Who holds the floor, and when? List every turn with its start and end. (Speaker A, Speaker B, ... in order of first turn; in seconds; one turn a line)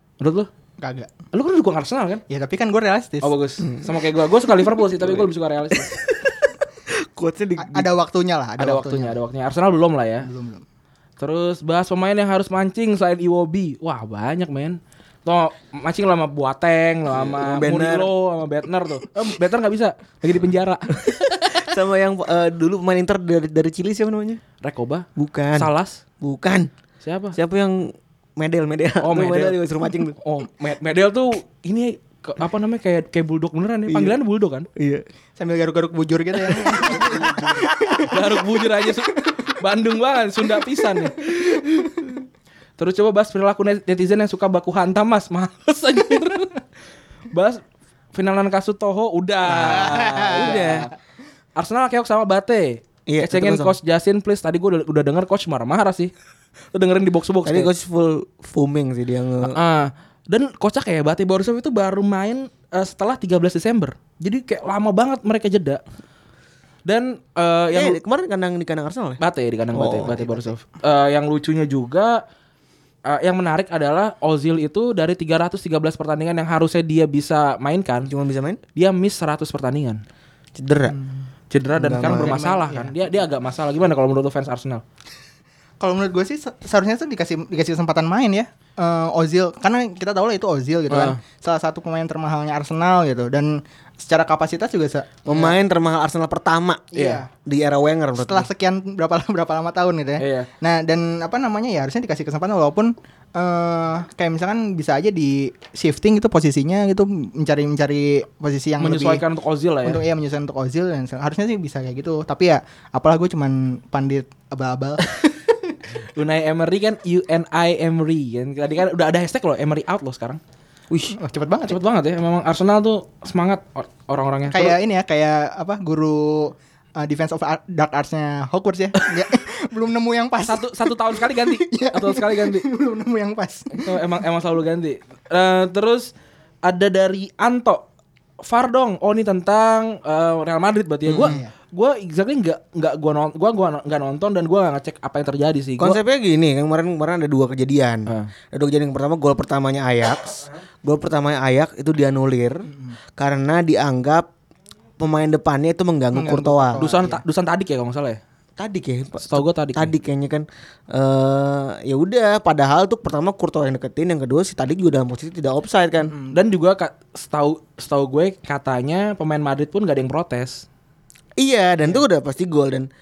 Speaker A: 0.2-0.5
Speaker B: 0.8-1.1
Speaker A: 1.3-2.2
Speaker B: 2.3-3.3
Speaker A: 3.2-5.9
Speaker C: 3.6-3.9
Speaker C: 4.5-7.9
Speaker B: 7.6-9.2
Speaker A: 8.6-10.3
Speaker B: 10.2-10.6
Speaker A: 11.2-21.6
Speaker C: 17.1-18.1
Speaker C: 21.0-24.4
Speaker A: 24.6-26.0
Speaker C: 25.2-25.7
Speaker C: 26.2-26.7
Speaker A: 27.0-27.4
Speaker C: 27.3-30.2
Speaker A: 29.0-29.6
Speaker A: 30.2-34.7
Speaker C: 33.9-34.2
Speaker C: 34.8-35.0
Speaker B: 35.4-38.1
Speaker C: 36.7-38.1
Speaker A: 36.8-41.3
Speaker A: 42.8-46.6
Speaker A: 47.3-47.6
Speaker A: 48.1-50.9
Speaker C: 49.5-50.9
Speaker B: 49.5-50.8
Speaker A: 51.6-56.1
Speaker C: 53.1-53.8
Speaker A: 56.7-57.7
Speaker C: 57.5-59.6
Speaker A: 59.5-65.8
Speaker A: 66.9-68.0
Speaker C: 67.7-69.2
Speaker A: 69.2-72.2
Speaker C: 69.7-70.5
Speaker A: 73.1-78.1
Speaker C: 78.1-78.6
Speaker A: 78.8-80.0
Speaker C: 80.6-81.0
Speaker B: 80.9-81.3
Speaker A: 81.5-84.8
Speaker C: 81.8-82.4
Speaker B: 81.9-83.0
Speaker B: 85.8-95.5
Speaker A: 90.9-91.2
Speaker C: 95.3-96.9
Speaker B: 96.9-97.3
Speaker A: 97.0-97.2
Speaker C: 97.5-98.5
Speaker B: 98.2-109.2
Speaker A: 100.2-100.5
Speaker A: 108.8-110.0
Speaker B: 109.8-115.8
Speaker A: 116.2-120.4
Speaker C: 120.9-121.2
Speaker B: 121.2-121.8
Speaker A: 121.7-124.8
Speaker B: 124.5-134.0
Speaker A: 130.4-132.7
Speaker A: 133.7-136.1
Speaker A: 136.7-137.9
Speaker A: 138.4-146.0
Speaker C: 141.1-141.4
Speaker B: 141.2-141.5
Speaker C: 145.8-154.3
Speaker B: 152.7-153.0
Speaker C: 155.0-156.8
Speaker B: 156.1-157.2
Speaker A: 156.8-158.2
Speaker C: 158.6-166.2
Speaker A: 159.2-159.9
Speaker B: 166.1-166.4
Speaker A: 166.3-170.7
Speaker C: 171.4-172.9